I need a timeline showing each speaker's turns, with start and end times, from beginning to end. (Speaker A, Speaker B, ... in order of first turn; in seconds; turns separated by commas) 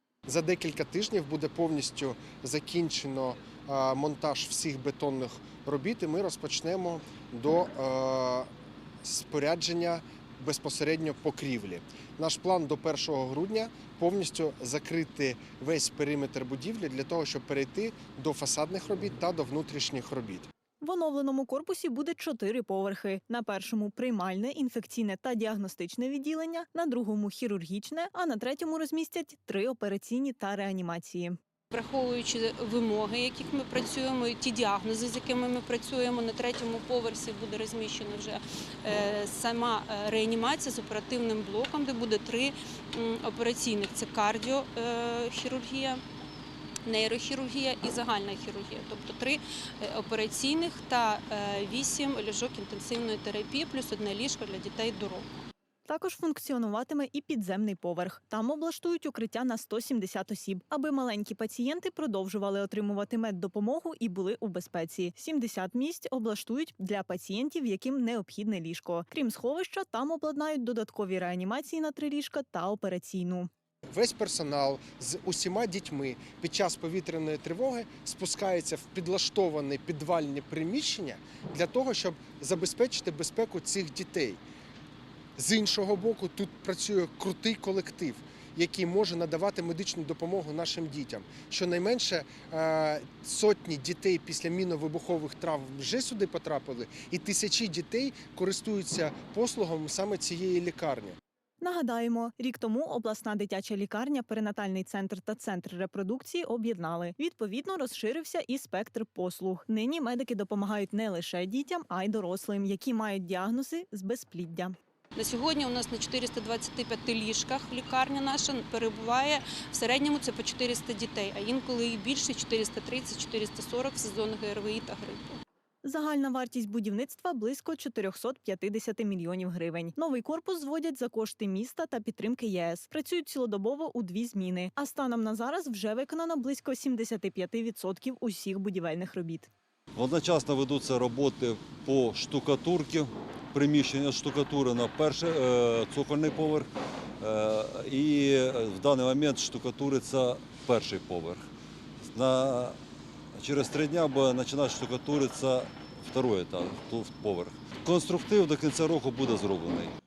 Speaker A: 0.3-8.5, Speaker A: 9.0-20.5, Speaker B: 20.8-31.4, Speaker C: 31.7-46.0, Speaker C: 46.9-55.3, Speaker B: 55.9-73.5, Speaker A: 73.9-84.4, Speaker A: 85.4-101.2, Speaker B: 101.6-114.8, Speaker C: 115.2-125.4, Speaker B: 125.8-139.5, Speaker D: 139.9-151.5, Speaker D: 152.0-152.8, Speaker D: 153.3-160.0